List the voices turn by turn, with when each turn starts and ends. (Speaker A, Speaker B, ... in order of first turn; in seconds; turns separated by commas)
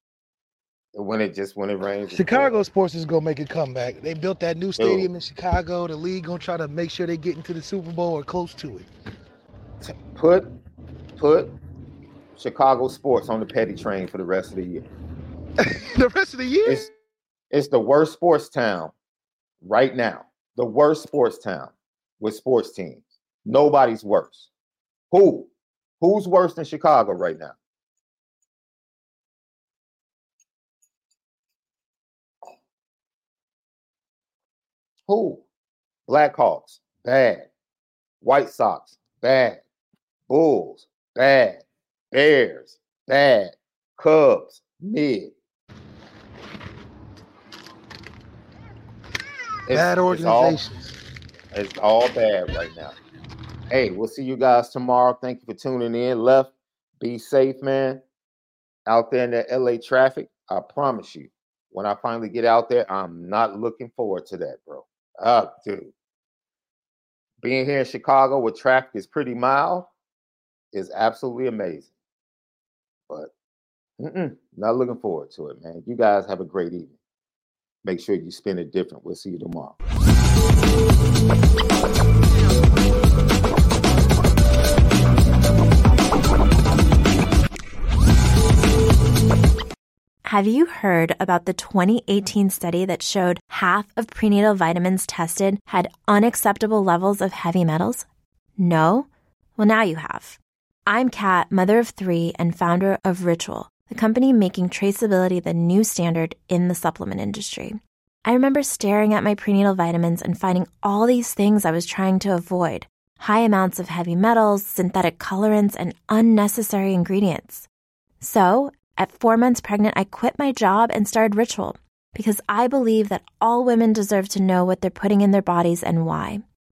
Speaker A: 0.9-2.7, Speaker B: 2.1-8.9, Speaker A: 4.8-5.1, Speaker A: 9.8-10.5, Speaker A: 11.2-11.5, Speaker A: 12.4-14.9, Speaker B: 15.6-16.9, Speaker A: 16.6-16.9, Speaker A: 17.5-18.9, Speaker A: 19.6-24.5, Speaker A: 25.1-27.6, Speaker A: 35.1-35.4, Speaker A: 36.1-37.5, Speaker A: 38.2-39.6, Speaker A: 40.3-45.3, Speaker A: 49.7-50.6, Speaker B: 49.7-51.0, Speaker A: 51.5-53.0, Speaker A: 53.7-58.0, Speaker A: 58.9-65.9, Speaker A: 67.4-69.9, Speaker A: 70.7-71.9, Speaker A: 74.0-77.0, Speaker A: 77.8-79.8, Speaker C: 90.3-98.1, Speaker C: 98.6-117.7, Speaker C: 118.2-126.4